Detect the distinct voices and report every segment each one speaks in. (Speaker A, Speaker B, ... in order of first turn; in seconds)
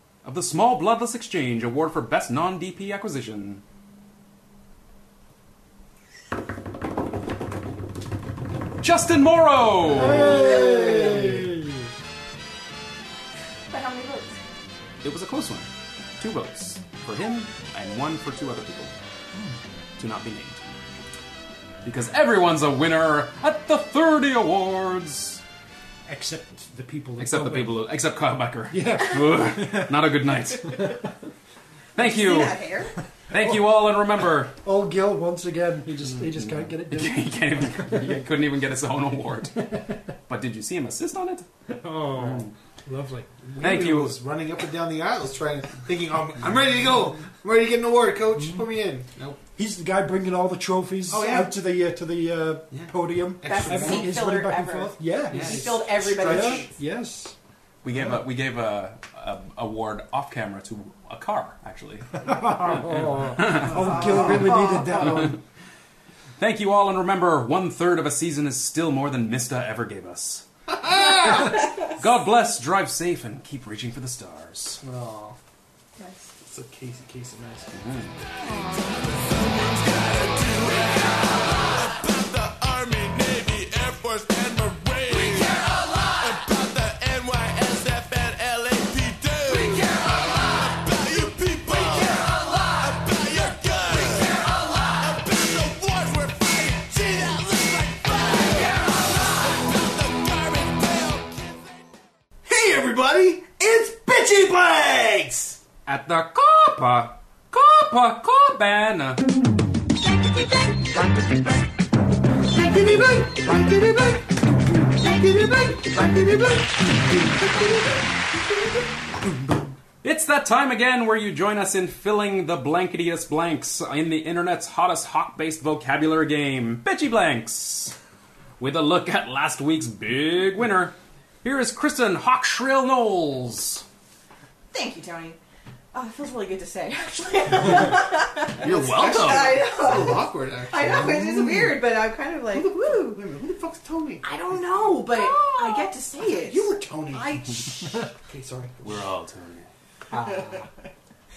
Speaker A: 0.2-3.6, 8.8-10.5, 15.0-15.7, 16.2-18.9, 20.0-20.6, 21.8-25.4, 27.2-31.1, 31.9-32.6, 33.3-34.5, 36.2-41.5, 42.2-42.5, 43.6-44.2, 57.8-63.9, 66.4-70.5, 71.3-74.8, 77.7-78.2, 105.9-109.2, 120.0-128.0, 128.6-133.8, 138.6-139.6, 148.8-149.7
Speaker B: 9.9-11.9, 26.1-27.8, 28.7-31.0, 33.3-38.2, 41.7-43.5, 46.8-47.1, 48.4-48.7, 49.6-57.4, 62.2-65.4
Speaker C: 10.2-11.4, 13.7-14.4, 32.0-33.0, 53.4-56.7, 63.7-65.3, 76.0-76.3, 78.4-79.0, 134.7-135.4, 135.9-143.2, 144.2-147.9, 150.2-150.7
Speaker D: 10.6-11.1, 43.5-49.4, 51.1-51.5, 52.7-54.1, 55.3-56.7, 63.7-64.4, 70.7-71.7, 74.8-75.4, 76.4-77.8, 102.5-105.6, 112.5-118.0, 138.6-141.8, 142.5-149.0, 150.1-150.7
Speaker E: 78.7-101.5